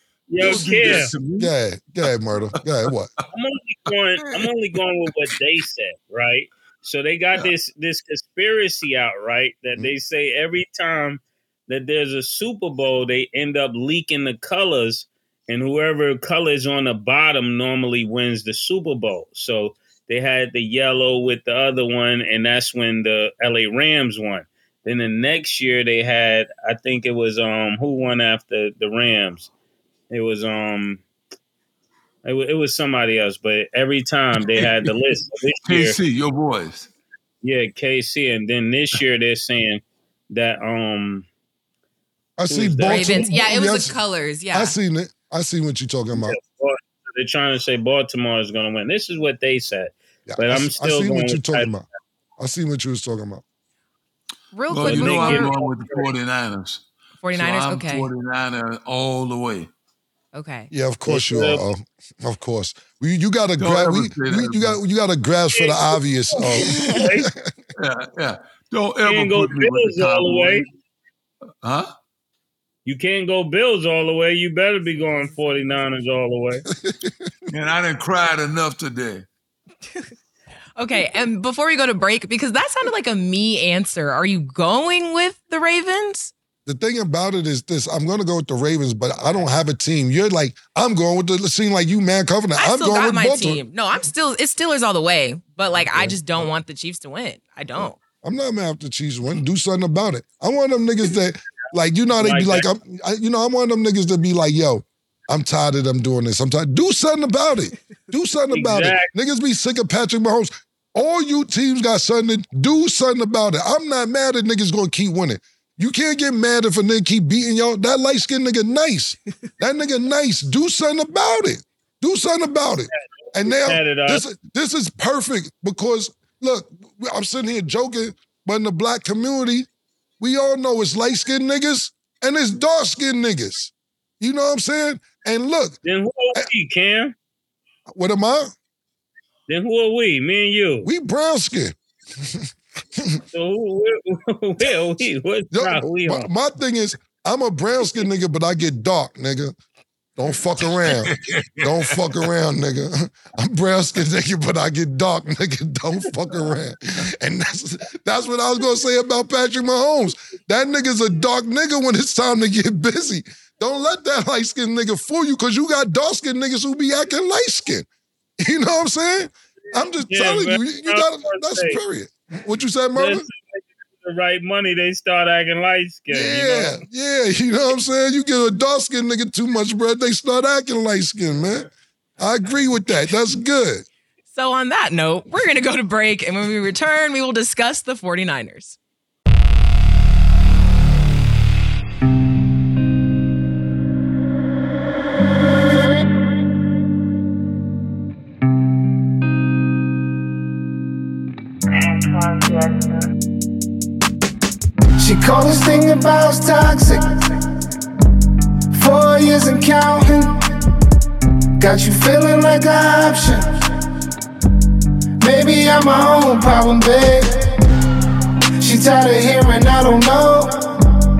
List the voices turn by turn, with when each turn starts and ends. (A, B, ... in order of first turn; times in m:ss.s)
0:00.3-0:01.1 A
0:00.4-0:01.5 B
0:01.4-0:03.1 C
0:03.3-0:29.5 A
0:30.1-0:31.0 A
0:32.2-0:36.0 A
0:34.4-0:34.9 B
0:35.6-0:36.9 B
0:37.4-0:41.3 A
0:42.4-0:44.0 C
0:42.5-0:43.3 A
0:42.9-0:44.8 D
0:44.5-0:46.4 C
0:46.2-0:51.7 A
0:50.3-0:51.8 C
0:52.4-0:53.4 C
0:54.5-0:55.5 D
0:54.7-0:59.7 B
0:54.8-0:56.1 A
0:57.2-0:58.1 D
1:00.3-1:00.7 D
1:00.7-1:07.5 C
1:01.1-1:01.6 A
1:03.6-1:04.8 B
1:05.5-1:07.3 A
1:06.5-1:07.0 D
1:07.8-1:10.7 B
1:09.0-1:10.6 A
1:11.6-1:11.9 B
1:12.8-1:16.6 A
1:16.7-1:17.3 C
1:17.5-1:19.3 B
1:20.8-1:26.3 D
1:26.7-1:33.6 C
1:32.6-1:38.0 D
1:35.9-1:36.5 C
1:37.8-2:09.7 C
1:42.2-1:42.6 A
1:48.5-1:49.1 A
2:02.9-2:04.2 A
2:10.2-2:15.8 C
2:15.8-2:17.1 A
2:17.9-2:18.5 C
2:19.5-2:20.9 A
2:20.8-2:23.2 C
2:23.3-2:26.3 A
2:25.5-2:29.6 C
2:30.2-2:47.9 C
2:30.6-2:32.1 B
2:48.4-2:53.3 C
2:50.0-2:51.8 A
2:53.0-2:56.8 A
2:56.1-3:03.8 C
3:04.3-3:08.8 D
3:25.0-3:27.4 E
3:28.7-3:30.5 E
3:31.6-3:33.5 E
3:35.2-3:37.6 E
3:38.6-3:40.7 E